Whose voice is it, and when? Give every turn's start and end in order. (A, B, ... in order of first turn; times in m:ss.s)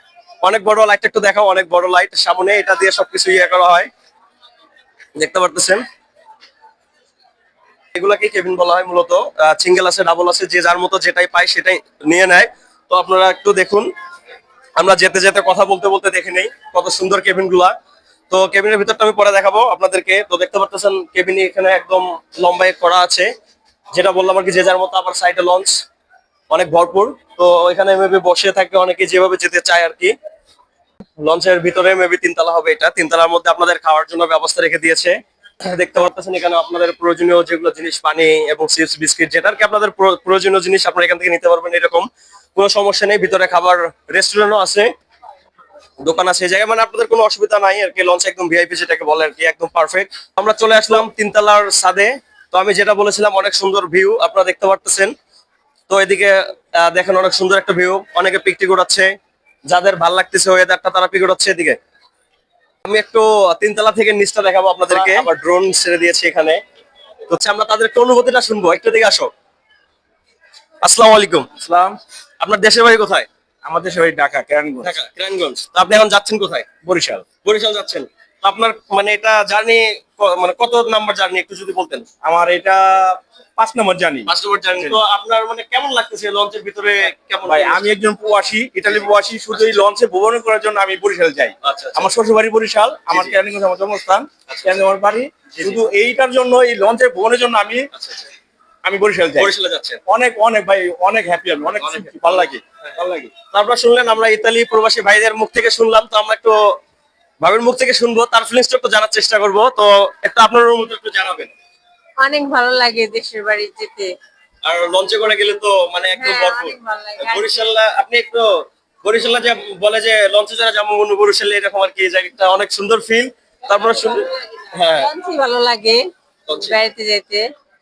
0:00.4-0:03.9 A
0:05.2-0:05.8 A
0:07.9-0:13.9 A
0:14.8-0:17.7 A
0:18.3-0:23.3 A
0:23.9-0:25.8 A
0:26.5-0:30.1 A
0:31.2-0:44.9 A
0:46.0-0:55.1 A
0:55.9-0:59.1 A
0:59.7-1:01.8 A
1:02.8-1:06.6 A
1:07.3-1:09.3 A
1:10.8-1:11.5 A
1:11.5-1:12.0 B
1:12.4-1:13.3 A
1:13.6-1:14.9 B
1:14.8-1:16.7 A
1:16.8-1:17.3 B
1:17.4-1:22.1 A
1:22.2-1:25.0 B
1:24.3-1:27.8 A
1:27.4-1:37.9 B
1:31.6-1:32.1 A
1:33.1-1:33.4 A
1:34.5-1:34.8 A
1:35.5-1:35.8 A
1:37.9-1:38.3 A
1:38.8-1:39.5 B
1:39.4-1:40.0 A
1:40.1-1:43.3 B
1:41.8-1:42.9 A
1:43.5-1:46.6 A
1:47.4-1:51.5 A
1:52.2-1:54.1 C
1:54.6-1:58.4 A
1:56.1-1:57.7 C
1:59.0-2:05.1 A
2:04.8-2:07.4 C
2:06.5-2:06.8 A